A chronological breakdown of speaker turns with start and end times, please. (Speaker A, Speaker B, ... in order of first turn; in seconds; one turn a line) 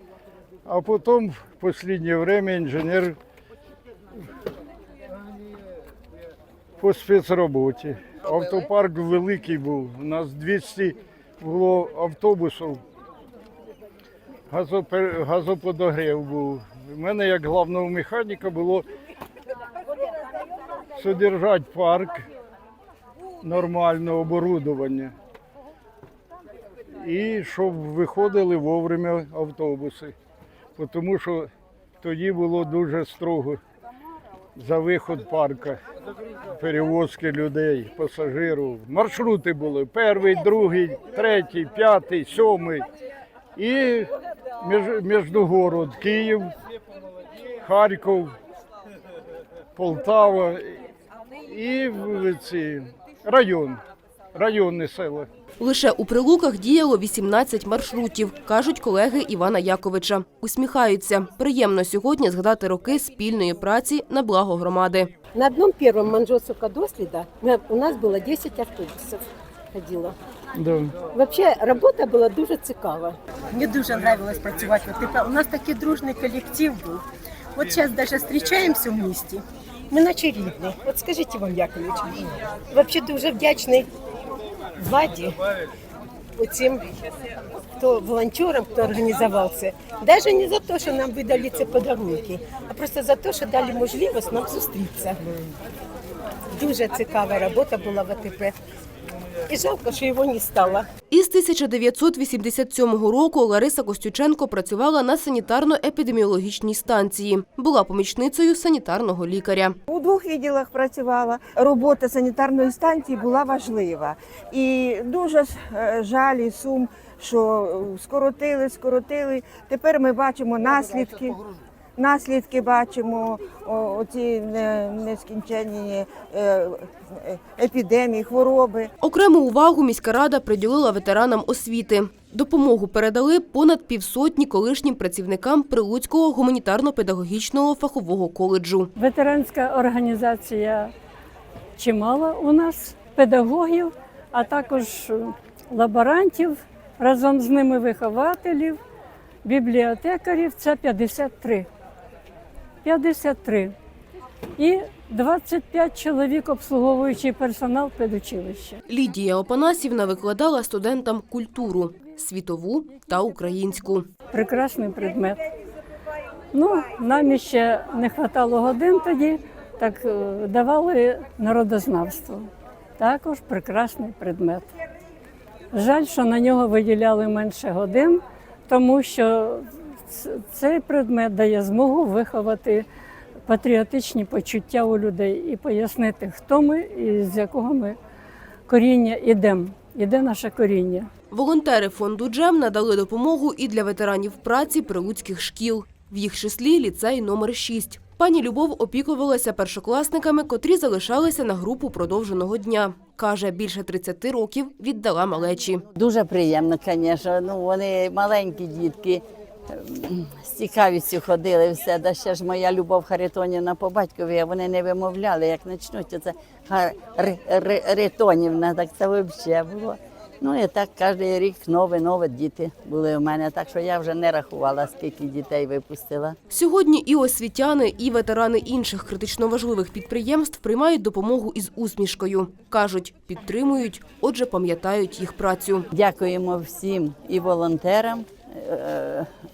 Speaker A: 0.7-3.2
Speaker A: 6.8-12.8
Speaker A: 14.5-18.9
Speaker A: 21.0-22.2
Speaker A: 23.4-25.1
Speaker A: 27.0-30.1
Speaker A: 30.8-31.5
Speaker A: 32.0-33.6
Speaker A: 34.6-35.8
Speaker A: 36.5-42.9
Speaker A: 43.5-46.5
Speaker A: 47.6-48.3
Speaker A: 49.8-50.8
Speaker A: 51.5-53.8
Speaker A: 54.3-55.3
Speaker B: 55.6-65.1
Speaker C: 65.3-70.2
Speaker A: 70.6-70.9
Speaker C: 71.0-83.9
Speaker C: 84.8-85.4
Speaker C: 86.4-86.9
Speaker C: 87.8-95.2
Speaker C: 96.5-98.6
Speaker C: 99.5-100.9
Speaker B: 101.1-109.8
Speaker D: 109.9-121.4
Speaker D: 122.0-128.9
Speaker B: 129.0-138.9
Speaker E: 138.9-140.9
Speaker E: 141.8-148.8
Speaker E: 149.4-151.7
Speaker E: 152.8-153.7
Speaker E: 154.6-158.8
Speaker B: 158.9-164.1
Speaker E: 164.3-165.4
Speaker E: 166.5-174.7
Speaker E: 175.7-182.8
Speaker E: 183.5-188.0
Speaker E: 188.7-191.1
Speaker B: 191.3-205.8
Speaker F: 205.9-226.4
Speaker B: 226.5-235.9
Speaker F: 235.9-239.3